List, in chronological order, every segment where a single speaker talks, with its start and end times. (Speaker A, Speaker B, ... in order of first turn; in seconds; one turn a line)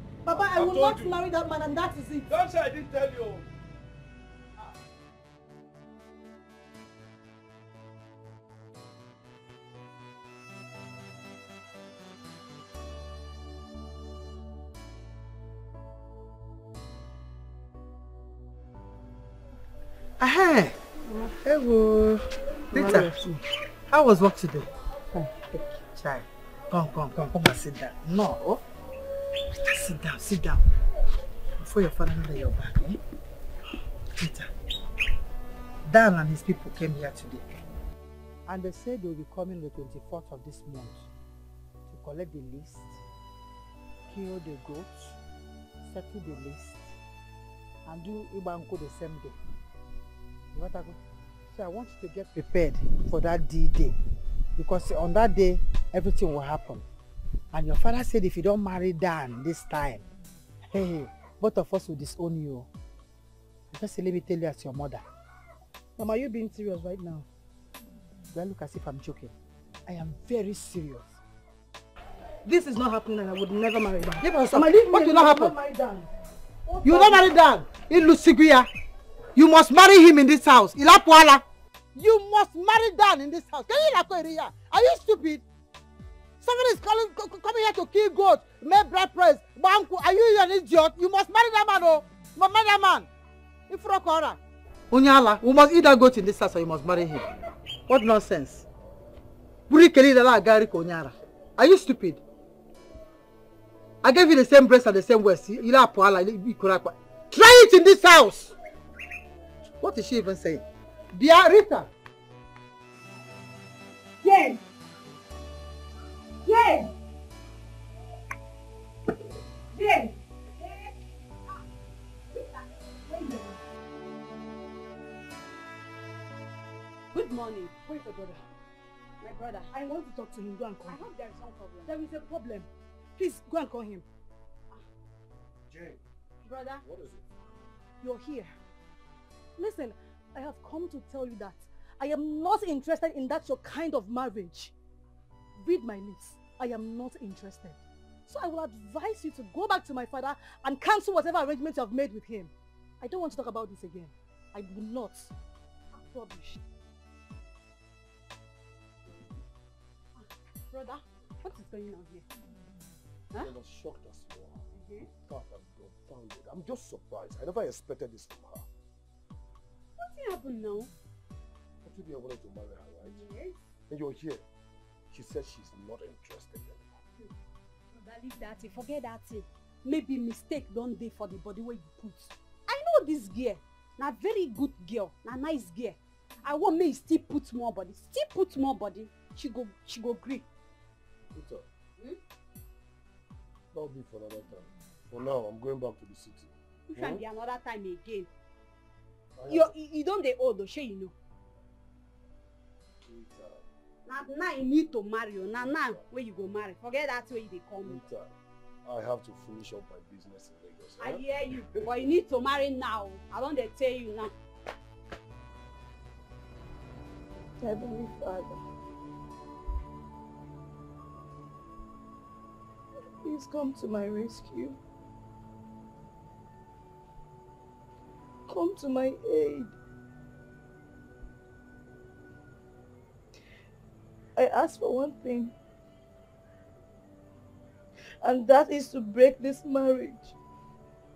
Speaker A: 0.2-2.3
Speaker B: 0.3-1.1
Speaker B: 2.3-3.5
Speaker C: 20.2-20.8
Speaker A: 21.1-21.4
Speaker C: 21.4-23.2
Speaker A: 22.7-23.4
Speaker C: 23.9-28.6
Speaker C: 29.7-30.6
Speaker C: 31.6-33.0
Speaker C: 34.2-34.5
Speaker C: 35.9-37.4
Speaker C: 38.5-41.1
Speaker C: 41.9-43.0
Speaker C: 44.1-45.2
Speaker C: 45.8-46.9
Speaker C: 47.9-49.4
Speaker C: 50.5-51.0
Speaker C: 51.5-53.9
Speaker C: 54.6-56.9
Speaker C: 57.5-60.1
Speaker C: 60.7-62.7
Speaker C: 63.7-65.0
Speaker A: 66.0-67.2
Speaker C: 68.3-69.3
Speaker C: 69.8-71.2
Speaker A: 72.4-76.1
Speaker C: 74.2-75.5
Speaker A: 76.6-77.3
Speaker C: 76.8-78.7
Speaker C: 79.3-81.4
Speaker C: 81.9-85.4
Speaker C: 86.4-93.1
Speaker C: 93.7-94.4
Speaker C: 94.9-97.3
Speaker C: 97.9-98.7
Speaker C: 99.7-102.2
Speaker C: 104.0-108.5
Speaker C: 109.8-111.9
Speaker D: 114.2-114.6
Speaker D: 116.4-116.9
Speaker D: 119.7-120.9
Speaker D: 122.3-123.6
Speaker D: 127.1-127.8
Speaker A: 127.8-128.4
Speaker D: 129.2-129.7
Speaker A: 129.7-131.0
Speaker D: 130.8-131.9
Speaker A: 131.8-134.1
Speaker E: 135.7-136.0
Speaker D: 136.4-136.8
Speaker E: 136.8-137.3
Speaker A: 138.0-138.6
Speaker A: 139.6-144.7
Speaker A: 145.6-155.3
Speaker A: 155.9-156.6
Speaker D: 160.2-162.2
Speaker E: 163.4-164.6
Speaker D: 164.7-165.1
Speaker E: 165.2-168.7
Speaker D: 170.0-170.9
Speaker E: 171.8-173.2
Speaker D: 173.0-173.6
Speaker E: 173.9-174.4
Speaker E: 175.1-176.9
Speaker D: 177.9-190.4
Speaker E: 191.3-191.6
Speaker E: 193.7-197.2
Speaker D: 196.9-198.3
Speaker E: 199.3-199.7
Speaker D: 199.5-201.1
Speaker E: 203.0-203.6
Speaker D: 204.1-208.0
Speaker E: 207.8-208.3
Speaker E: 208.8-211.8
Speaker D: 211.0-214.3
Speaker A: 217.6-218.6
Speaker A: 223.2-224.8
Speaker A: 228.5-229.7
Speaker A: 234.3-235.5
Speaker A: 238.2-240.3